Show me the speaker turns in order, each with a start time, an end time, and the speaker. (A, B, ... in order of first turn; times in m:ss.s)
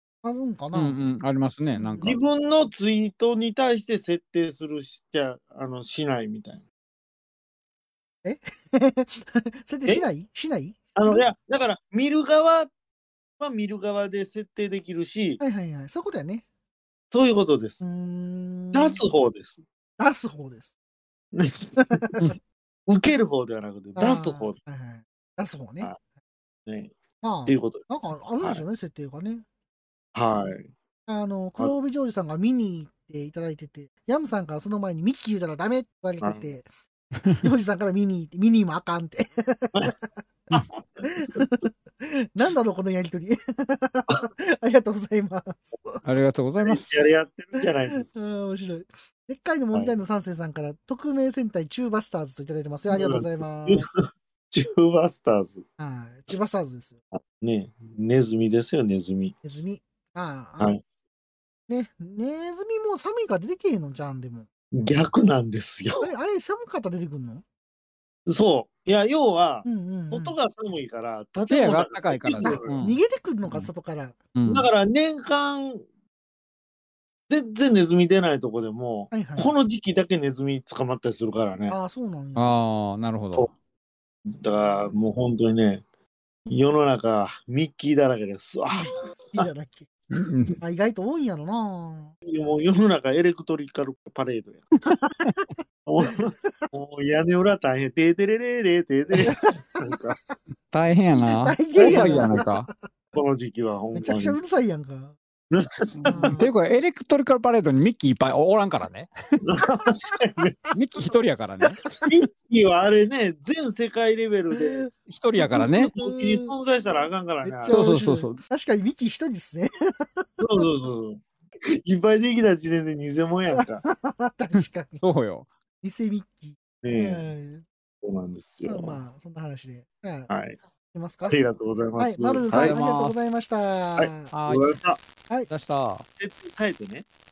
0:00.2-0:01.0 A
0:00.7-0:02.2 B
0:01.7-0:02.1 A
0:02.0-0:06.6 C
0:08.2-0:11.2 A
0:11.0-0:12.7 C
0:13.4-0:15.4 C
0:15.4-0:16.4 A
0:17.1-0:17.8 C
0:17.8-0:19.0 A
0:18.7-0:19.6 C
0:20.0-0:20.7 A
0:21.3-0:22.0 C
0:21.8-0:22.3 A
0:22.9-0:24.6 C
0:24.0-0:25.9 A
0:26.7-0:26.9 C
0:27.2-0:29.4 A
0:27.5-0:27.8 C
0:30.1-0:30.7 C
0:31.1-0:36.6 A
0:36.2-0:36.5 C
0:37.4-0:40.0 A
0:41.1-0:46.0 A
0:46.0-0:46.9 B
0:46.6-0:48.1 C
0:47.6-0:53.9 A
0:52.9-0:54.0 C
0:54.5-0:55.6 C
0:55.8-0:57.0 A
0:57.1-0:59.3 C
0:59.4-1:00.7 A
1:01.7-1:04.5 A
1:04.7-1:06.1 C
1:06.0-1:07.4 A
1:08.3-1:12.8 C
1:09.6-1:10.4 A
1:11.5-1:13.7 B
1:12.4-1:14.2 A
1:14.3-1:14.7 B
1:14.5-1:15.8 C
1:17.3-1:21.8 C
1:19.1-1:19.5 A
1:21.7-1:22.6 A
1:22.4-1:23.5 B
1:24.3-1:25.8 C
1:26.5-1:29.5 C
1:28.7-1:29.9 A
1:30.1-1:30.6 B
1:30.6-1:32.1 A
1:32.2-1:34.7 C
1:34.9-1:35.5 A
1:35.8-1:40.2 C
1:39.2-1:39.9 A
1:40.7-1:42.7 B
1:41.1-1:42.7 A
1:41.8-1:42.4 C
1:43.1-1:44.4 C
1:43.9-1:45.1 A
1:45.5-1:46.4 C
1:46.0-1:49.1 B
1:46.1-1:46.5 A
1:49.4-1:50.6 C
1:50.7-1:51.8 B
1:51.7-1:52.1 A
1:52.0-1:54.8 C
1:54.6-1:56.5 A
1:55.1-1:55.9 B
1:55.5-1:57.9 C
1:57.4-2:00.6 A
1:57.6-1:58.4 B
2:00.4-2:01.2 C
2:01.7-2:03.8 C
2:03.5-2:05.0 A
2:04.6-2:05.5 B
2:05.8-2:07.6 A
2:06.8-2:07.3 C
2:08.0-2:09.0 C
2:08.6-2:10.3 A
2:10.3-2:10.6 C
2:10.9-2:11.4 A
2:11.3-2:12.7 C
2:12.0-2:14.3 A
2:12.5-2:13.2 B
2:14.0-2:15.0 C
2:14.3-2:14.8 B
2:15.5-2:16.0 B
2:16.2-2:17.0 C